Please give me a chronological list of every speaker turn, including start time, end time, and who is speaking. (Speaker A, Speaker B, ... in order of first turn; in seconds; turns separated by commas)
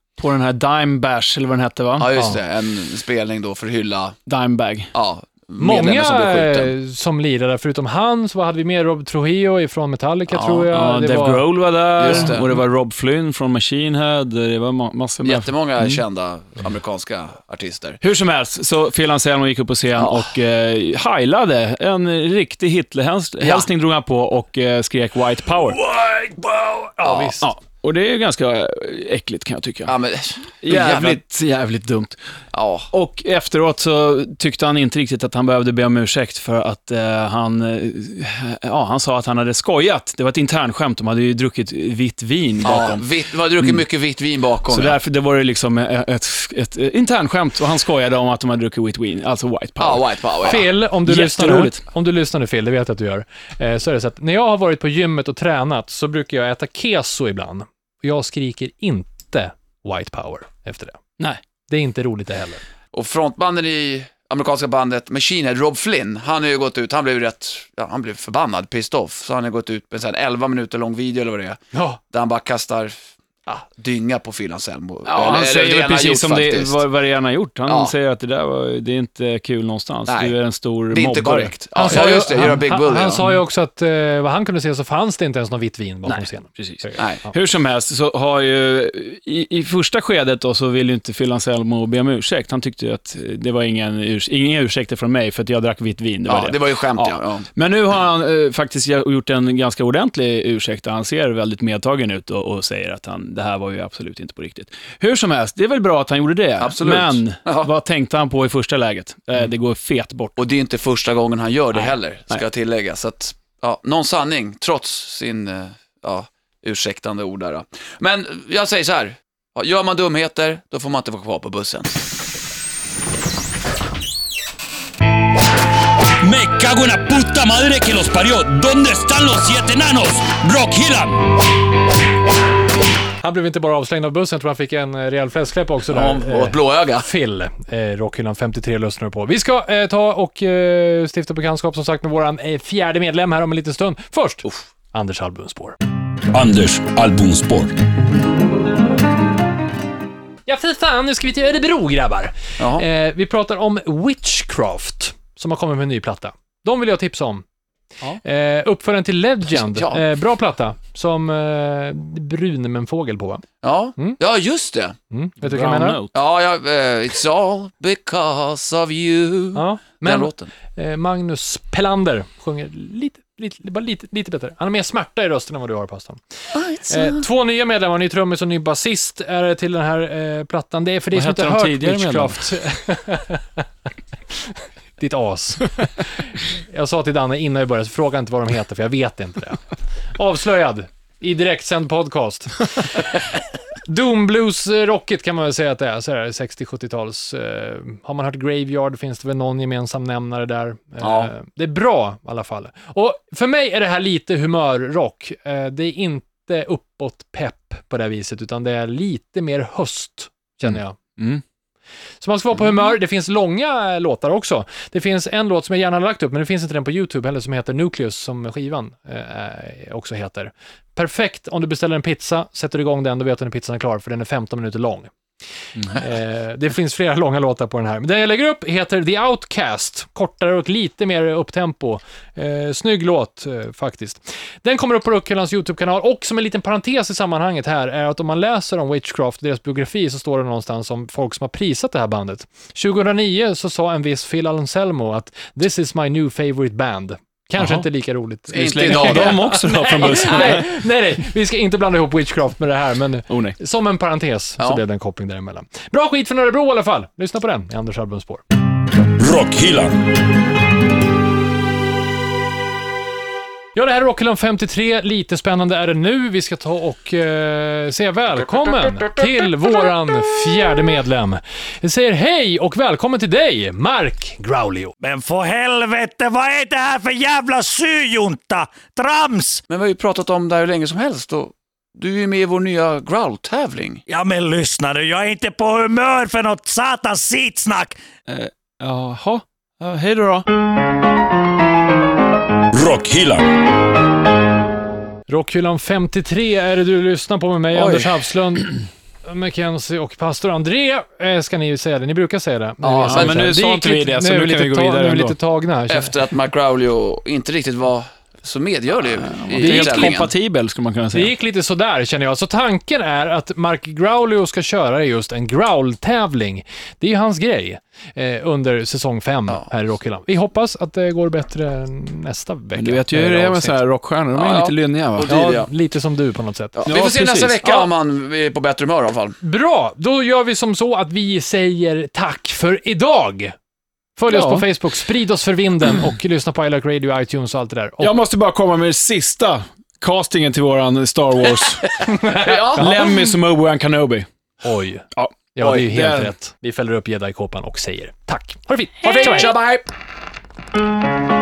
Speaker A: 0.2-2.1, Speaker B: 2.0-4.2, Speaker A: 4.3-4.9, Speaker B: 4.9-6.7, Speaker C: 5.6-11.4, Speaker B: 10.3-10.7, Speaker A: 10.7-16.0, Speaker B: 12.0-12.6, Speaker B: 15.2-18.0, Speaker A: 18.0-25.8, Speaker B: 19.9-20.3, Speaker B: 23.4-23.7, Speaker C: 25.8-27.5, Speaker B: 27.0-27.4, Speaker A: 27.4-29.9, Speaker B: 29.9-31.2, Speaker A: 30.6-32.2, Speaker B: 32.5-32.9, Speaker A: 32.9-43.0, Speaker B: 42.6-45.0, Speaker A: 44.7-51.8, Speaker B: 49.8-50.6, Speaker C: 50.4-61.0, Speaker C: 61.7-62.6, Speaker B: 62.9-71.6, Speaker C: 71.7-72.0, Speaker B: 72.1-72.9, Speaker B: 73.5-76.8, Speaker A: 75.0-81.5, Speaker B: 77.7-77.9, Speaker B: 80.1-80.3, Speaker B: 80.9-83.3, Speaker C: 81.7-87.0, Speaker A: 86.5-110.4, Speaker B: 87.0-87.2, Speaker B: 96.3-97.5, Speaker B: 106.6-107.7, Speaker B: 110.4-122.0, Speaker A: 111.7-112.4, Speaker D: 126.2-131.2, Speaker C: 133.2-145.8, Speaker B: 135.9-137.0, Speaker D: 146.3-147.7, Speaker C: 150.5-157.4, Speaker B: 152.6-152.8, Speaker C: 158.2-163.4, Speaker B: 159.5-160.0, Speaker B: 163.6-164.9, Speaker C: 165.1-166.0, Speaker A: 165.4-166.1, Speaker B: 166.1-170.5, Speaker C: 169.5-183.6, Speaker B: 176.5-177.2, Speaker A: 181.1-182.4, Speaker C: 184.5-189.6, Speaker C: 190.1-193.1, Speaker C: 193.9-211.0, Speaker B: 201.0-201.3, Speaker A: 210.7-211.4, Speaker C: 212.2-225.1, Speaker C: 225.9-258.4, Speaker A: 247.6-247.8, Speaker A: 248.5-250.7, Speaker B: 248.5-250.6, Speaker A: 253.3-253.6, Speaker D: 259.0-260.0, Speaker C: 263.7-274.9, Speaker E: 275.0-279.6, Speaker B: 279.7-284.0, Speaker E: 284.1-288.0, Speaker A: 288.3-290.5, Speaker D: 292.7-293.5, Speaker C: 295.3-306.1, Speaker B: 302.8-303.4, Speaker A: 303.1-305.4, Speaker B: 305.9-310.3, Speaker A: 309.5-311.3, Speaker C: 311.1-323.8, Speaker A: 322.8-325.3, Speaker B: 324.3-325.7, Speaker C: 325.3-326.8, Speaker B: 326.8-329.4, Speaker A: 326.9-327.7, Speaker C: 329.4-333.5, Speaker C: 334.2-338.1, Speaker A: 334.3-334.6, Speaker A: 338.0-342.0, Speaker B: 341.9-343.0, Speaker C: 342.1-343.0, Speaker A: 342.7-344.3, Speaker C: 344.6-349.5, Speaker A: 345.1-346.3, Speaker B: 349.0-349.9